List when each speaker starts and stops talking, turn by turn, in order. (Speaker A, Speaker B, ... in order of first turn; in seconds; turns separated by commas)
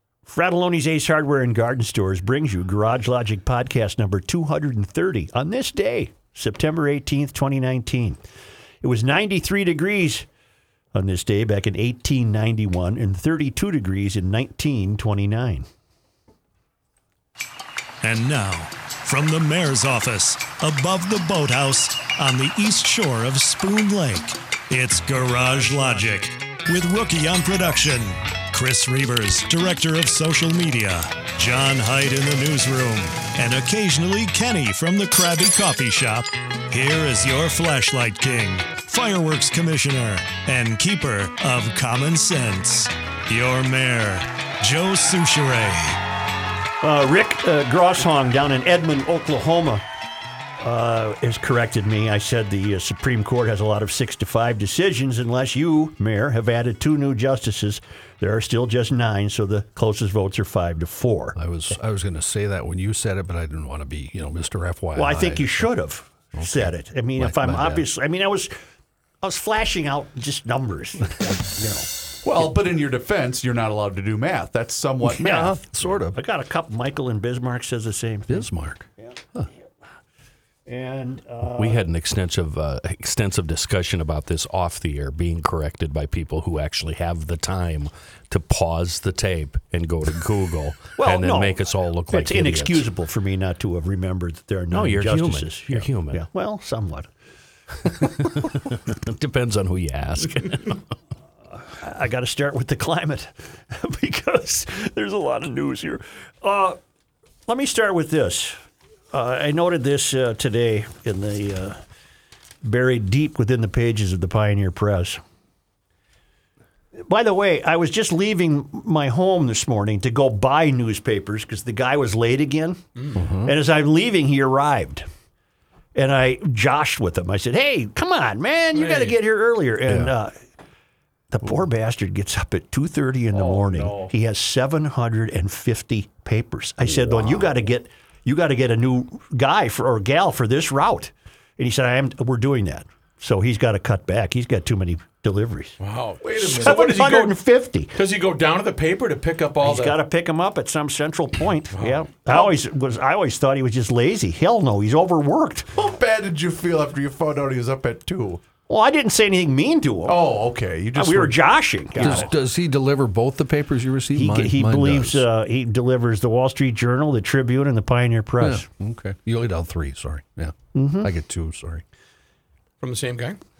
Speaker A: 0.3-8.2, Speaker A: 8.8-10.3, Speaker A: 10.9-15.7, Speaker B: 18.0-46.0, Speaker A: 46.8-49.8, Speaker A: 50.6-61.4, Speaker C: 61.4-65.7, Speaker A: 65.0-68.5, Speaker C: 66.3-67.9, Speaker A: 69.2-71.9, Speaker D: 72.2-75.5, Speaker C: 75.1-76.2, Speaker A: 75.2-75.5, Speaker A: 76.1-78.5, Speaker C: 78.3-79.5, Speaker A: 80.7-81.8, Speaker E: 81.6-92.9, Speaker A: 91.0-97.1, Speaker E: 94.7-96.2, Speaker E: 97.9-100.8, Speaker A: 101.7-106.8, Speaker A: 107.5-108.6, Speaker A: 109.1-111.8, Speaker A: 112.6-115.2, Speaker A: 117.0-122.8, Speaker C: 123.2-123.5, Speaker A: 123.4-125.1, Speaker A: 126.0-130.3, Speaker F: 128.7-129.2, Speaker A: 131.3-145.8, Speaker F: 145.8-147.4, Speaker D: 146.2-146.8, Speaker A: 146.5-147.9, Speaker F: 147.9-150.0, Speaker A: 149.6-155.7, Speaker F: 151.7-152.5, Speaker D: 155.8-158.4, Speaker A: 158.7-160.2, Speaker D: 160.1-161.4, Speaker A: 161.0-162.3, Speaker D: 161.9-162.3, Speaker C: 162.0-165.2, Speaker A: 164.2-168.7, Speaker C: 168.4-171.8, Speaker A: 170.7-171.1, Speaker F: 172.8-173.4